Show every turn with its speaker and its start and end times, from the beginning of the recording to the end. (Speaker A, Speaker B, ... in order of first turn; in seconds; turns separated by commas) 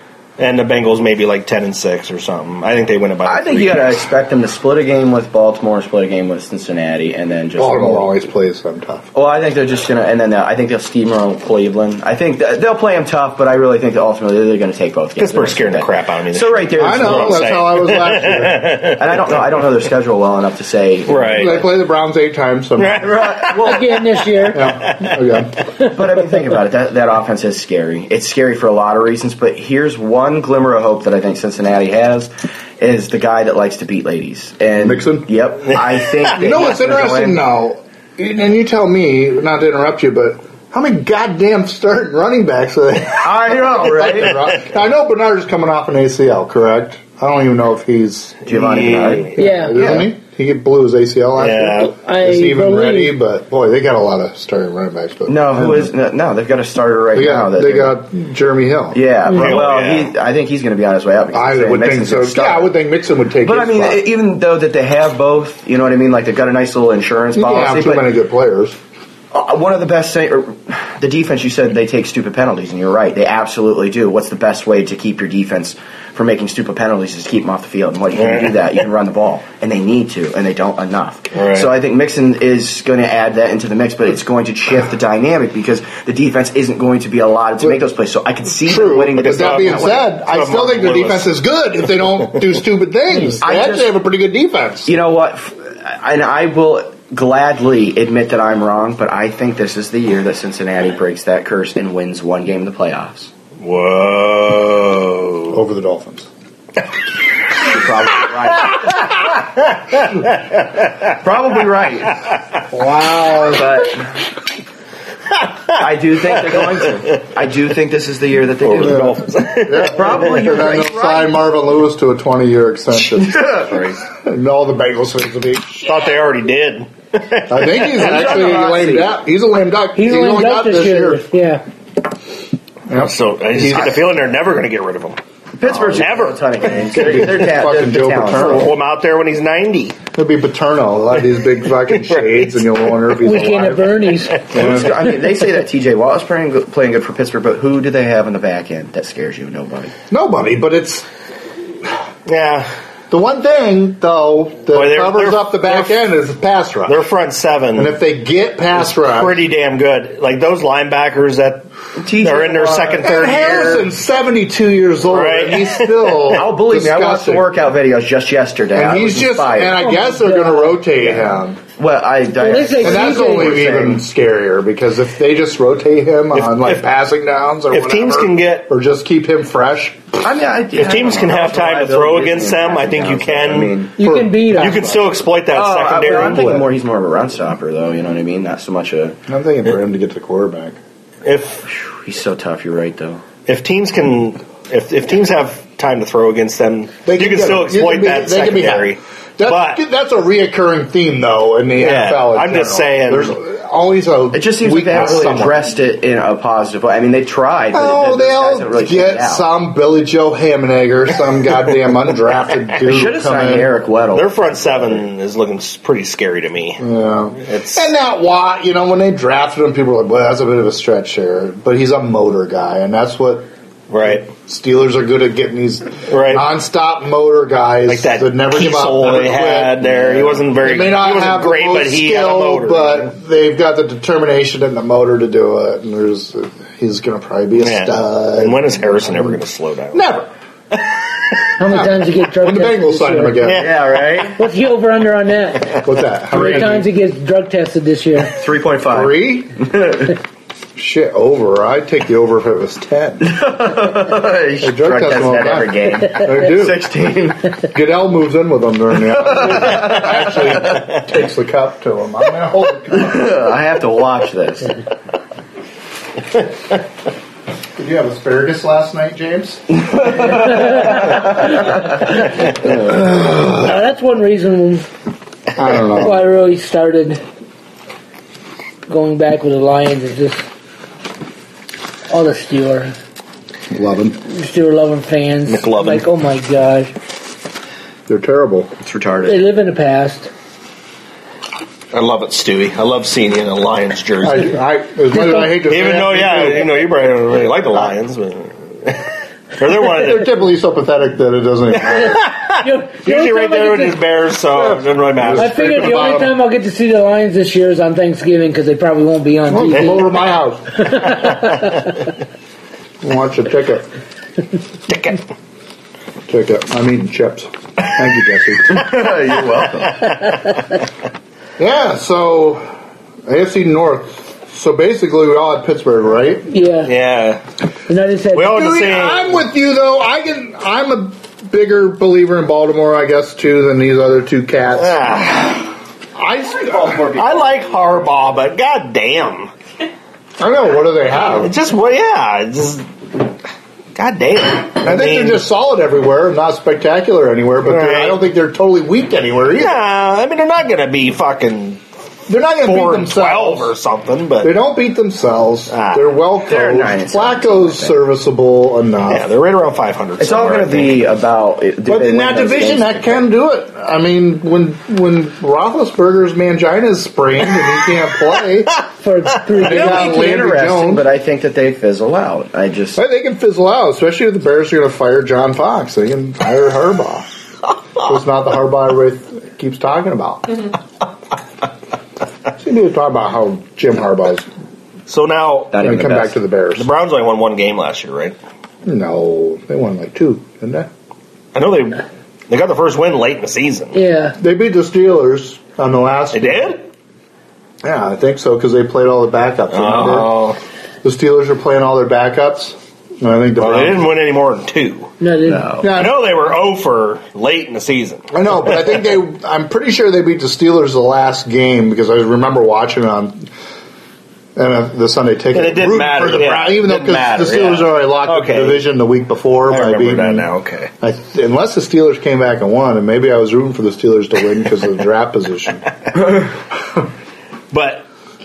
Speaker A: 0.4-4.0, Speaker B: 3.2-8.1, Speaker C: 7.6-9.1, Speaker B: 9.1-17.4, Speaker A: 15.2-19.4, Speaker C: 16.8-18.9, Speaker B: 19.0-21.7, Speaker A: 21.1-21.6, Speaker C: 21.3-23.1, Speaker A: 22.8-23.8, Speaker B: 23.0-24.1, Speaker D: 23.6-24.8, Speaker C: 24.5-25.6, Speaker B: 25.8-37.4, Speaker C: 34.8-35.3, Speaker C: 36.4-48.5, Speaker B: 43.2-44.5, Speaker B: 48.5-50.1, Speaker A: 48.5-49.4, Speaker C: 49.4-55.9, Speaker D: 49.4-50.0, Speaker A: 51.4-51.9, Speaker D: 51.8-53.1, Speaker B: 55.3-58.0, Speaker C: 57.1-59.0, Speaker B: 58.9-62.7, Speaker D: 59.3-59.6, Speaker A: 59.3-60.1, Speaker C: 61.3-64.0, Speaker B: 63.4-68.0, Speaker C: 67.3-68.8, Speaker B: 69.3-90.1, Speaker A: 78.2-78.7, Speaker A: 81.3-81.7, Speaker C: 88.7-94.9, Speaker A: 89.2-91.3, Speaker B: 93.4-93.9, Speaker B: 94.9-103.3, Speaker A: 103.6-105.6, Speaker C: 105.5-106.3, Speaker B: 107.6-109.0, Speaker A: 109.9-111.1, Speaker B: 111.1-112.2, Speaker B: 113.4-114.1, Speaker A: 115.4-115.8, Speaker B: 115.7-119.2, Speaker A: 118.6-120.2, Speaker C: 118.8-126.1, Speaker B: 119.8-121.4, Speaker B: 123.2-124.0, Speaker A: 125.8-128.5, Speaker C: 127.5-131.2, Speaker B: 128.0-129.1, Speaker D: 129.9-131.6, Speaker C: 132.9-134.0, Speaker A: 132.9-135.2, Speaker B: 135.6-138.7, Speaker C: 135.7-136.0, Speaker A: 135.8-137.3, Speaker C: 136.9-138.7, Speaker A: 138.3-140.0, Speaker C: 140.1-144.9, Speaker A: 141.9-142.9, Speaker D: 143.2-144.4, Speaker A: 144.2-145.1, Speaker B: 144.5-149.9, Speaker C: 150.1-151.1, Speaker A: 152.2-152.7, Speaker C: 153.1-157.0, Speaker A: 154.7-156.1, Speaker A: 156.9-157.9, Speaker C: 157.8-159.4, Speaker A: 158.8-163.8, Speaker B: 162.0-163.9, Speaker C: 163.0-167.5, Speaker A: 165.1-166.3, Speaker B: 166.3-169.8, Speaker C: 168.7-171.6, Speaker D: 169.8-170.8, Speaker B: 171.0-174.0, Speaker D: 172.4-173.6, Speaker C: 172.8-180.2, Speaker A: 176.3-176.8, Speaker A: 177.7-178.7, Speaker B: 180.2-184.0, Speaker A: 180.8-183.8, Speaker D: 184.0-184.9, Speaker C: 184.0-184.4, Speaker A: 184.5-186.6, Speaker B: 184.6-189.2, Speaker C: 186.0-186.7, Speaker C: 189.3-190.8, Speaker A: 191.2-191.7, Speaker B: 191.7-193.2, Speaker A: 193.4-199.8, Speaker C: 197.1-205.6, Speaker A: 201.8-203.4, Speaker B: 204.3-209.4, Speaker C: 207.7-213.7, Speaker B: 212.8-215.0, Speaker A: 214.1-216.8, Speaker C: 216.8-223.5, Speaker A: 217.4-217.9, Speaker A: 223.9-224.3, Speaker C: 224.0-239.4, Speaker A: 226.1-226.5, Speaker A: 227.9-233.1, Speaker A: 237.6-240.1, Speaker C: 239.9-240.3, Speaker D: 241.6-243.5, Speaker C: 241.6-243.7, Speaker A: 243.4-244.3, Speaker B: 243.5-244.4, Speaker D: 244.3-248.3, Speaker C: 245.8-246.8, Speaker B: 248.3-250.1, Speaker C: 248.9-249.6, Speaker C: 250.8-253.4, Speaker B: 253.2-257.5, Speaker C: 254.6-256.9, Speaker C: 257.7-263.4, Speaker B: 259.3-260.5, Speaker B: 262.9-264.8, Speaker C: 267.8-269.8, Speaker D: 270.4-274.9, Speaker C: 272.7-273.4, Speaker C: 275.6-276.2, Speaker D: 275.9-277.2, Speaker D: 278.9-280.4, Speaker D: 282.1-282.9, Speaker C: 283.7-284.2, Speaker D: 284.3-286.9, Speaker A: 285.5-286.1, Speaker C: 288.1-288.7, Speaker B: 288.8-289.4, Speaker D: 289.2-290.3, Speaker A: 291.9-294.6, Speaker C: 294.2-296.7, Speaker D: 295.1-295.6, Speaker A: 295.6-300.3, Speaker C: 299.8-302.2, Speaker A: 301.9-305.9, Speaker D: 302.0-304.0, Speaker C: 305.1-306.3, Speaker D: 305.3-310.1, Speaker C: 309.5-310.8, Speaker D: 310.8-311.9, Speaker C: 313.0-313.9, Speaker A: 314.9-315.2, Speaker C: 316.3-318.9, Speaker B: 318.7-320.1, Speaker C: 321.6-322.7, Speaker C: 323.2-326.5, Speaker D: 326.5-326.9, Speaker A: 326.8-327.4, Speaker D: 327.9-328.7, Speaker A: 328.3-329.4, Speaker C: 328.4-335.0, Speaker A: 334.7-335.7, Speaker C: 336.1-337.2, Speaker A: 337.1-339.5, Speaker C: 340.4-341.5, Speaker A: 341.3-342.9, Speaker A: 343.9-345.4, Speaker C: 344.8-349.8, Speaker A: 347.6-348.2, Speaker A: 349.5-351.8, Speaker C: 352.3-353.8, Speaker A: 352.6-354.5, Speaker C: 354.4-359.3, Speaker A: 355.7-356.1, Speaker B: 356.4-358.0, Speaker A: 359.1-361.1, Speaker B: 360.2-363.2, Speaker C: 361.9-368.8, Speaker D: 369.0-370.3, Speaker C: 369.6-371.1, Speaker B: 369.6-373.0, Speaker C: 372.9-377.3, Speaker C: 378.0-380.7, Speaker C: 382.6-384.5, Speaker A: 385.1-385.9, Speaker B: 385.7-386.3, Speaker C: 385.8-386.9, Speaker A: 386.8-388.4, Speaker C: 388.8-390.9, Speaker A: 391.5-394.0, Speaker D: 393.9-394.4, Speaker C: 394.4-396.8, Speaker A: 396.3-396.8, Speaker C: 397.8-400.3, Speaker A: 399.7-400.6, Speaker C: 401.0-404.0, Speaker A: 403.6-405.1, Speaker D: 405.2-405.8, Speaker B: 405.4-405.8, Speaker C: 405.8-406.2, Speaker A: 405.8-408.3, Speaker C: 408.3-413.5, Speaker C: 414.6-420.5, Speaker A: 415.5-418.9, Speaker A: 419.7-420.9, Speaker C: 421.0-425.9, Speaker A: 427.7-428.0